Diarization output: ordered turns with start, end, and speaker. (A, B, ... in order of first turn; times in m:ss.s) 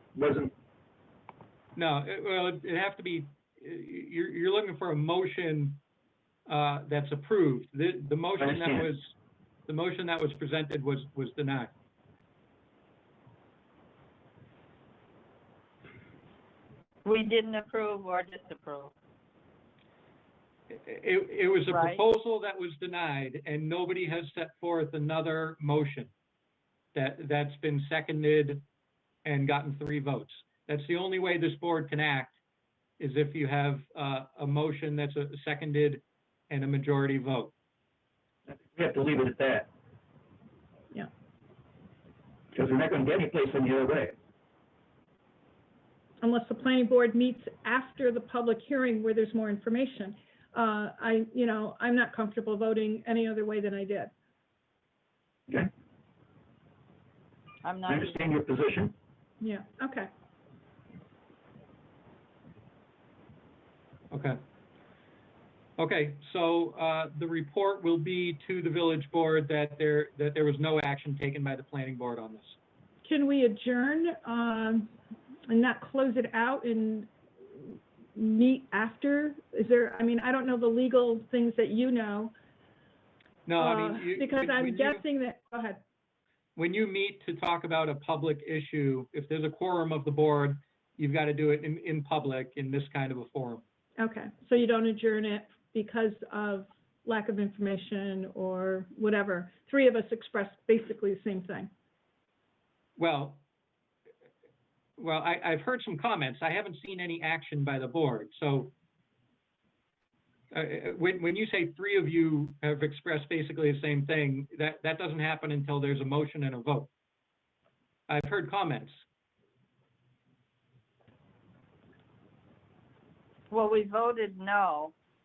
0:00.2-0:00.5 A
0:01.8-0:05.8 B
0:06.5-0:09.1 B
0:08.4-0:08.9 A
0:09.7-0:11.7 B
0:17.0-0:18.9 C
0:20.7-0:26.1 B
0:21.7-0:22.0 C
0:27.0-0:28.6 B
0:29.2-0:32.4 B
0:33.0-0:37.5 B
0:38.5-0:39.7 A
0:42.5-0:44.2 A
0:46.2-0:54.1 D
0:57.6-0:58.2 C
0:57.9-0:58.9 A
0:59.4-1:00.1 D
1:04.1-1:04.4 B
1:05.8-1:12.6 B
1:13.0-1:14.9 D
1:15.5-1:22.3 D
1:23.5-1:25.0 B
1:23.6-1:25.8 D
1:26.6-1:33.6 B
1:34.0-1:41.7 D
1:43.0-1:43.4 B
1:45.0-1:48.7 B
1:50.5-1:56.9 B
1:58.1-1:59.0 B
2:03.5-2:04.9 C